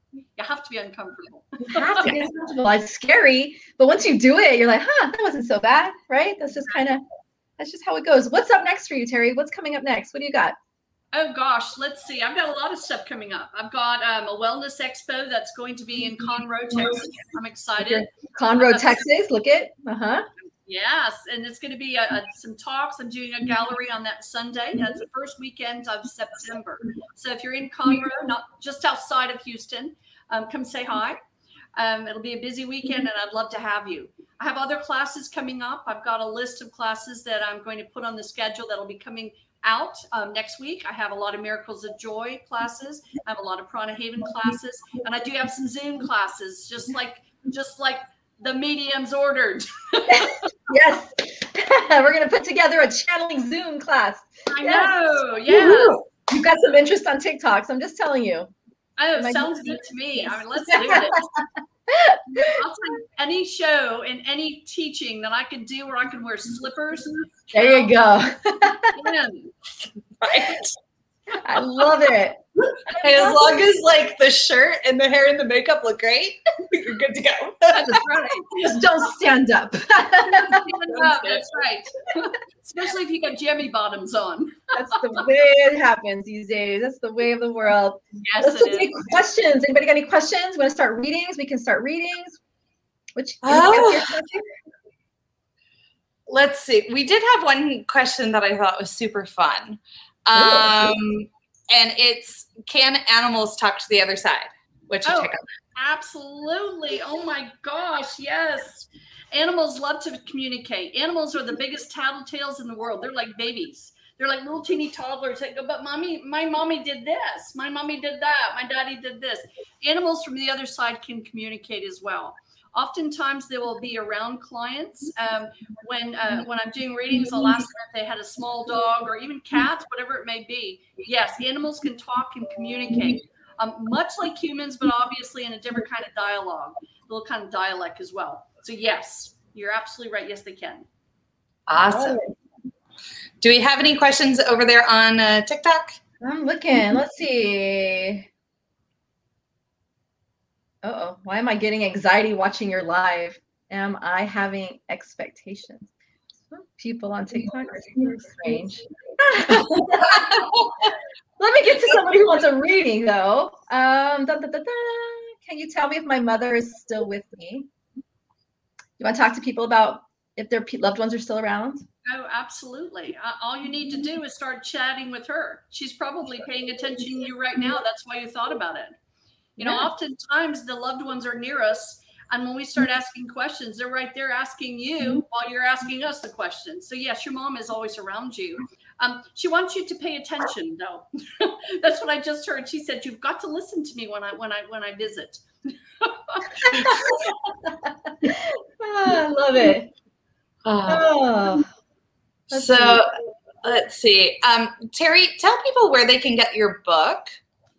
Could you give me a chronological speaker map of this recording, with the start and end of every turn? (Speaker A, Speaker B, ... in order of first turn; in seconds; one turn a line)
Speaker A: 0.3-2.1
Speaker B: 1.6-7.0
Speaker B: 7.6-10.5
Speaker A: 11.1-19.0
Speaker B: 17.8-20.2
Speaker A: 20.6-31.2
Speaker A: 31.7-50.5
Speaker B: 50.1-58.5
Speaker A: 54.5-56.0
Speaker A: 59.0-61.3
Speaker B: 59.2-62.6
Speaker A: 62.4-67.9
Speaker B: 67.5-69.0
Speaker A: 68.9-69.5
Speaker C: 70.2-70.8
Speaker B: 71.4-72.4
Speaker B: 73.0-73.5
Speaker C: 73.0-78.0
Speaker A: 77.7-78.6
Speaker B: 78.5-80.7
Speaker A: 80.4-85.2
Speaker C: 80.9-81.4
Speaker B: 84.7-92.4
Speaker A: 88.2-88.9
Speaker B: 93.2-94.5
Speaker C: 93.4-94.2
Speaker C: 96.3-105.4
Speaker B: 100.3-100.9
Speaker A: 105.0-140.9
Speaker C: 141.7-142.2
Speaker C: 143.4-146.0
Speaker B: 146.2-148.2
Speaker B: 150.8-155.9
Speaker B: 156.5-160.6
Speaker C: 159.8-160.6
Speaker B: 161.4-167.7
Speaker B: 169.0-171.8
Speaker A: 172.1-178.9
Speaker A: 179.6-197.0
Speaker B: 179.6-179.9
Speaker B: 196.7-199.9
Speaker C: 200.6-201.1
Speaker B: 200.8-201.7
Speaker B: 202.5-203.0
Speaker C: 202.5-203.1
Speaker C: 203.6-207.3